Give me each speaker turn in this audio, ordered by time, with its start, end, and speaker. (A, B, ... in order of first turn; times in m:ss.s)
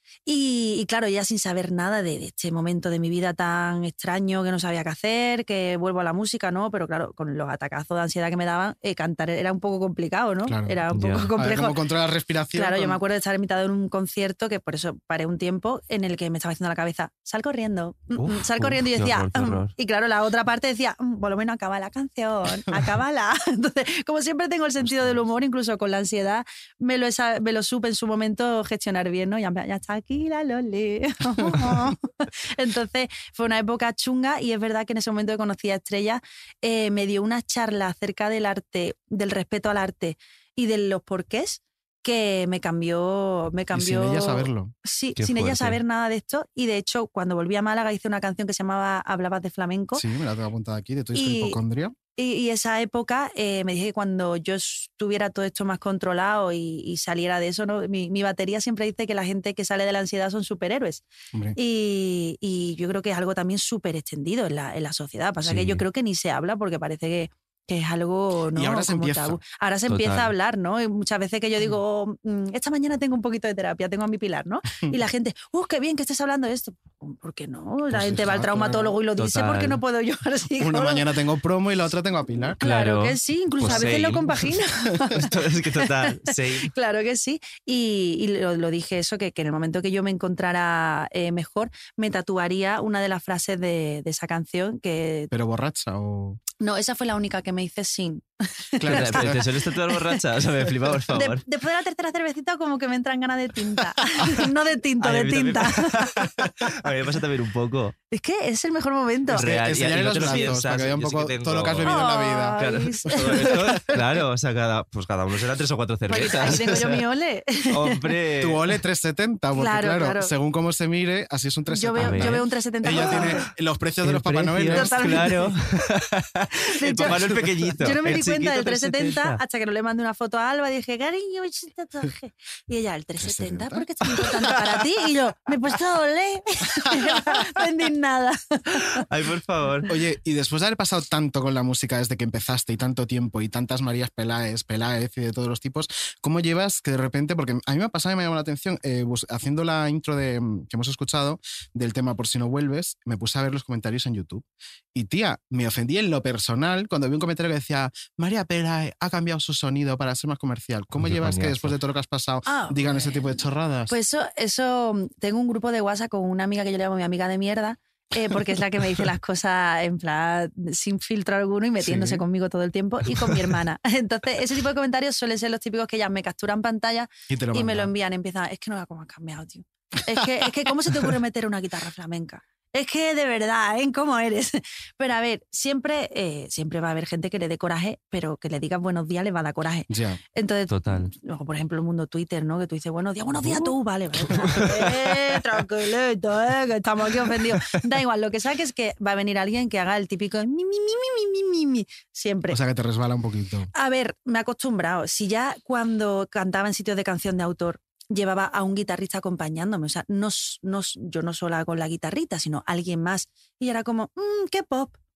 0:00.2-0:11.8 A
0:10.4-0:10.8 B
0:10.9-0:11.3 C
0:11.3-0:13.0 B
0:12.5-0:50.0 A
0:18.2-0:19.7 C
0:31.5-0:31.8 B
0:43.7-0:44.7 B
0:45.2-0:45.8 C
0:49.9-0:52.0 B
0:51.1-0:51.6 A
0:52.1-1:01.0 A
1:01.6-1:21.0 A
1:05.4-1:05.8 C
1:08.5-1:09.4 B
1:09.9-1:10.3 C
1:17.9-1:19.0 B
1:19.2-1:19.8 C
1:20.6-1:22.6 B
1:22.6-1:35.3 A
1:22.6-1:24.4 C
1:23.6-1:24.0 B
1:25.1-1:26.7 C
1:35.3-1:36.4 B
1:36.6-1:40.2 A
1:38.8-1:39.4 B
1:38.9-1:41.4 C
1:41.1-1:46.1 A
1:45.0-1:47.9 C
1:48.1-1:49.5 A
1:49.3-1:54.0 B
1:49.3-1:52.0 C
1:50.1-1:50.5 A
1:51.8-1:53.9 A
1:52.6-1:57.0 C
1:56.1-1:58.0 A
1:57.7-1:58.6 C
1:58.4-2:05.4 B
1:59.5-2:00.3 A
2:01.7-2:03.4 A
2:02.0-2:03.4 C
2:04.0-2:09.4 C
2:04.7-2:05.6 A
2:06.6-2:19.0 A
2:13.2-2:14.5 B
2:19.0-2:19.9 C
2:19.9-2:43.9 B
2:41.0-2:41.7 C
2:42.4-3:22.6 A
2:51.8-2:52.2 B
2:57.3-2:57.9 B
3:09.9-3:10.2 B
3:10.7-3:11.1 C
3:13.4-3:14.8 B
3:22.5-3:23.7 B
3:23.7-3:35.0 A